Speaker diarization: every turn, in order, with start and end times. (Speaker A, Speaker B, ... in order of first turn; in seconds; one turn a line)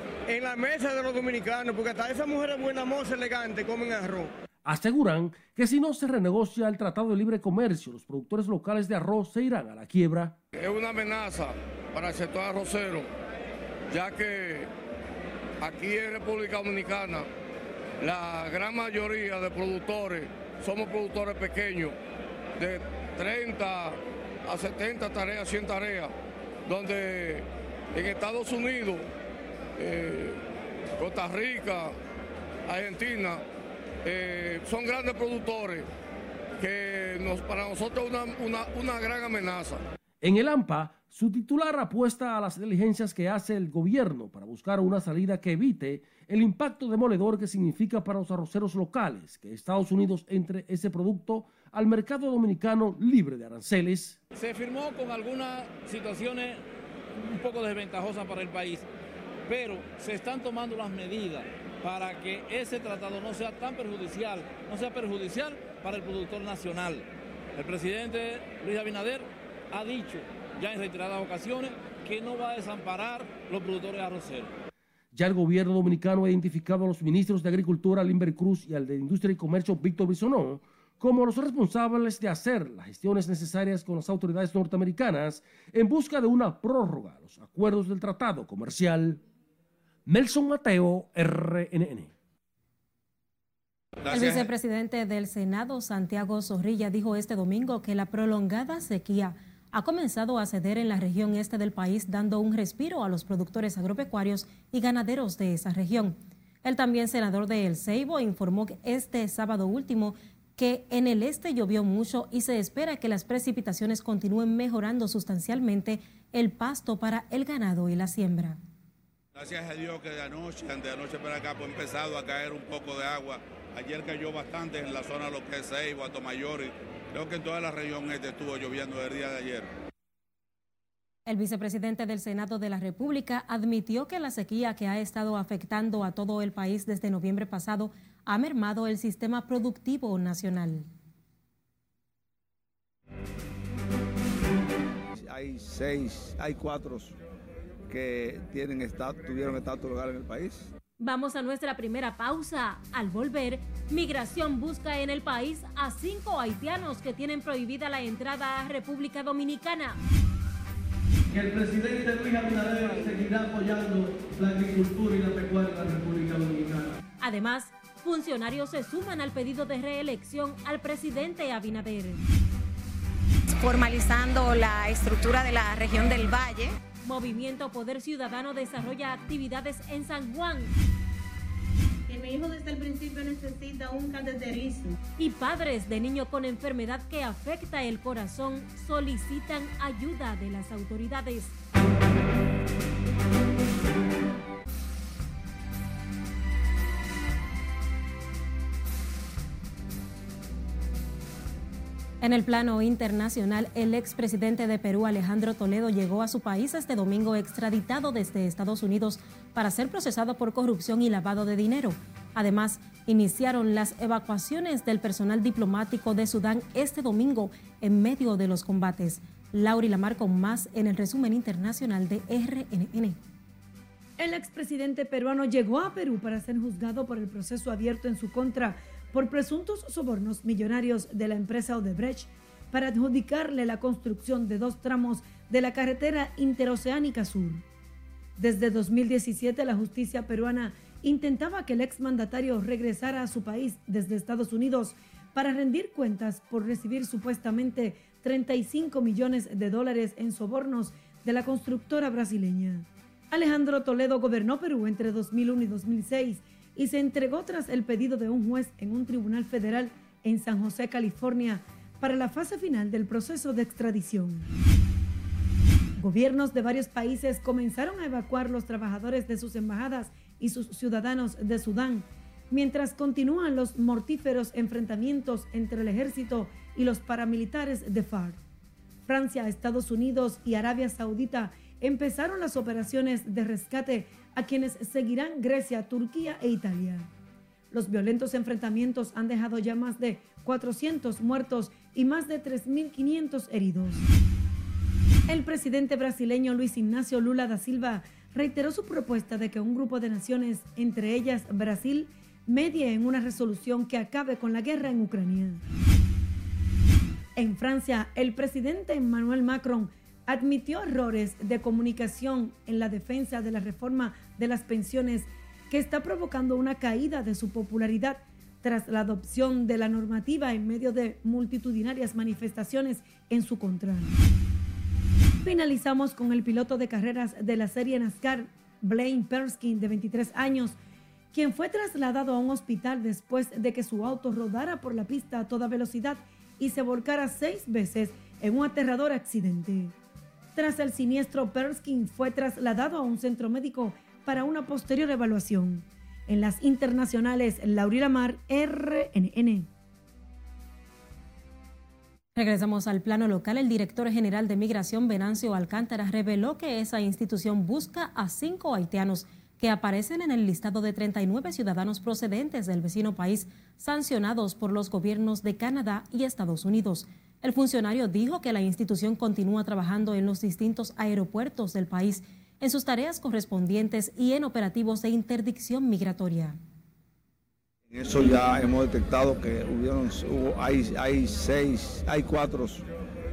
Speaker A: 0.3-4.3
Speaker B: 4.6-10.3
Speaker C: 10.5-13.1
Speaker C: 13.9-14.7
Speaker C: 15.6-17.3
Speaker C: 18.0-21.9
Speaker C: 22.6-26.1
Speaker C: 26.7-29.1
Speaker C: 29.8-30.4
Speaker C: 31.0-31.9
Speaker C: 32.7-33.4
Speaker C: 34.0-35.9
Speaker C: 36.6-39.8
Speaker B: 40.2-54.2
Speaker D: 54.3-56.6
Speaker D: 57.2-58.9
Speaker D: 59.5-74.5
Speaker B: 75.1-89.2
Speaker B: 90.0-92.1
Speaker E: 94.0-94.5
Speaker F: 94.1-118.6
Speaker E: 119.3-129.7
Speaker F: 131.2-140.8
Speaker G: 145.1-147.2
Speaker G: 147.9-150.7
Speaker F: 151.0-160.0
Speaker H: 161.3-166.9
Speaker F: 167.2-172.2
Speaker I: 173.5-176.7
Speaker F: 177.0-180.7
Speaker J: 182.1-185.0
Speaker F: 185.2-191.5
Speaker F: 202.2-223.2
Speaker K: 224.2-237.6
Speaker K: 238.4-264.5
Speaker K: 266.0-278.4
Speaker K: 279.1-287.1
Speaker K: 287.7-294.0
Speaker K: 295.3-305.6
Speaker K: 307.4-324.2
Speaker K: 325.4-330.8
Speaker K: 331.3-339.9
Speaker K: 340.5-349.7
Speaker F: 352.4-376.6
Speaker G: 377.9-382.9